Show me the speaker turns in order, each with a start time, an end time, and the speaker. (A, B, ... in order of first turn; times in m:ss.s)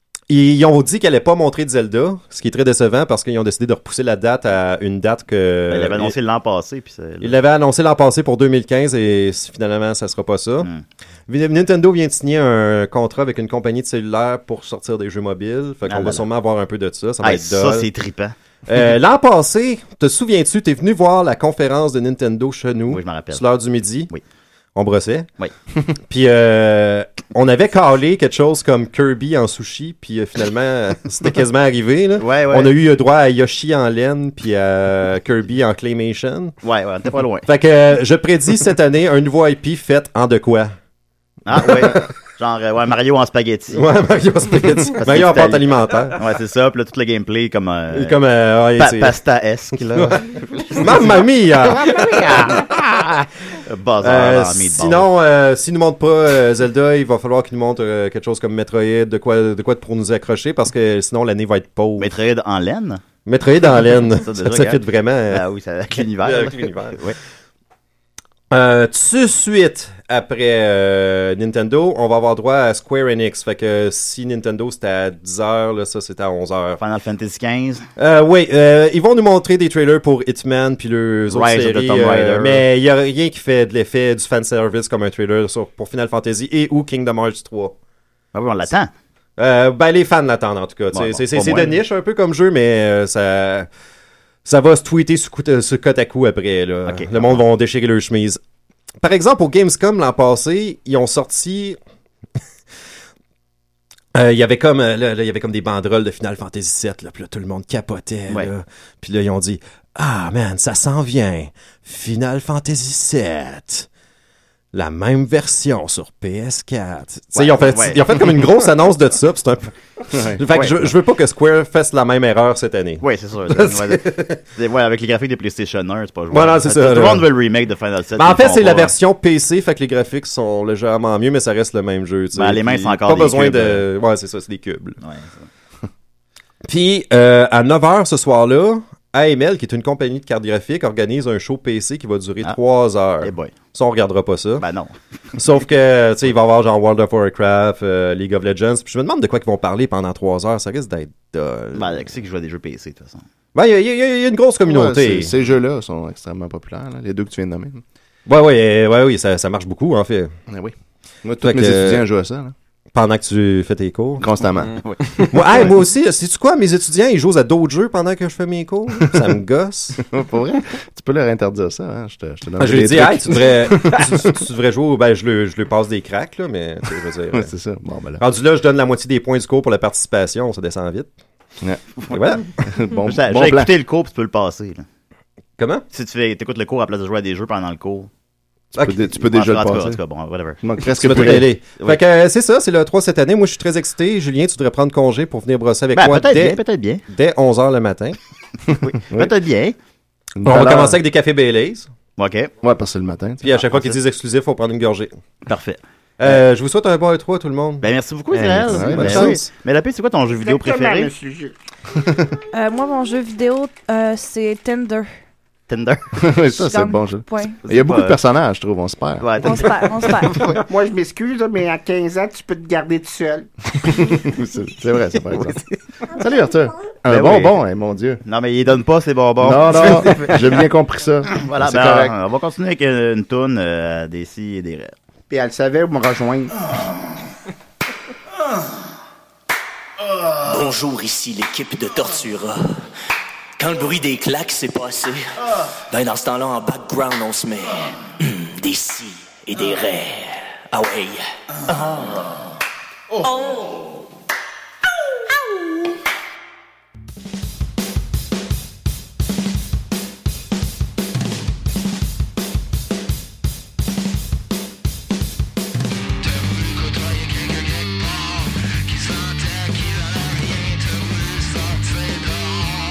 0:00.3-0:06.1 A
0:05.7-0:07.4 B
0:07.2-0:10.7 A
0:11.3-0:17.9 A
0:15.9-0:16.3 B
0:17.2-0:18.3 B
0:18.7-0:24.1 A
0:22.9-0:23.4 B
0:24.7-0:25.3 A
0:26.1-0:36.6 A
0:32.2-0:32.7 B
0:36.6-0:37.5 B
0:37.5-0:40.7 A
0:41.4-0:43.8 B
0:41.6-0:42.0 A
0:43.7-0:46.2 A
0:45.0-0:48.2 B
0:47.9-0:49.2 A
0:48.8-0:51.2 B
0:49.9-0:50.2 A
0:50.8-0:53.2 A
0:51.9-0:52.5 B
0:53.6-0:55.1 B
0:54.0-1:02.1 A
1:02.0-1:03.0 B
1:03.2-1:07.0 A
1:04.2-1:07.2 B
1:08.5-1:16.8 A
1:16.8-1:17.9 B
1:18.0-1:27.7 A
1:21.3-1:22.6 B
1:28.3-1:28.9 B
1:29.4-1:33.7 A
1:30.9-1:31.8 B
1:34.4-1:38.4 A
1:36.8-1:37.4 B
1:39.0-1:41.8 A
1:44.1-1:53.9 A
1:54.7-2:04.4 A
1:57.3-1:58.3 B
2:00.1-2:00.4 C
2:03.0-2:08.9 B
2:06.3-2:07.3 A
2:08.2-2:15.0 A
2:12.3-2:13.8 B
2:15.0-2:15.5 B
2:16.6-2:24.6 A
2:23.2-2:23.5 B
2:24.6-2:25.0 B
2:25.3-2:32.1 A
2:31.7-2:33.2 B
2:33.5-2:35.3 A
2:34.6-2:37.8 C
2:38.3-2:40.3 A
2:40.5-2:42.5 C
2:41.4-2:42.0 A
2:42.9-2:44.3 A
2:44.2-2:44.8 C
2:44.8-2:45.7 B
2:45.3-2:50.0 A
2:50.0-2:54.3 C
2:52.6-2:57.5 A
2:57.3-2:58.2 C
2:58.2-3:01.1 A
3:02.0-3:02.4 B
3:02.1-3:02.5 A
3:02.6-3:03.7 C
3:03.0-3:04.8 B
3:05.6-3:05.8 A
3:05.9-3:08.1 B
3:08.7-3:10.0 C
3:08.8-3:09.0 A
3:09.2-3:12.0 B
3:10.6-3:11.5 C
3:11.0-3:18.2 A
3:15.9-3:17.0 B
3:18.8-3:19.8 B
3:20.4-3:21.0 C
3:20.4-3:21.9 A
3:22.2-3:22.5 B
3:22.6-3:23.4 C
3:23.4-3:25.1 A
3:23.5-3:24.0 B
3:25.4-3:26.4 B
3:26.2-3:29.5 A
3:27.8-3:31.1 B
3:28.6-3:29.4 C
3:30.3-3:31.5 D
3:32.5-3:35.1 E
3:35.7-3:36.0 B
3:36.2-3:39.3 C
3:36.5-3:37.6 E
3:37.6-3:38.2 B
3:39.2-3:40.6 B
3:39.4-3:40.4 E
3:40.6-3:43.5 D
3:43.8-3:45.6 C
3:46.1-3:48.2 C
3:47.1-3:47.5 B
3:48.2-3:50.6 B
3:49.4-3:52.1 C
3:51.3-3:54.9 B
3:55.3-3:56.6 D
4:00.3-4:02.9 F
4:03.6-4:11.3 F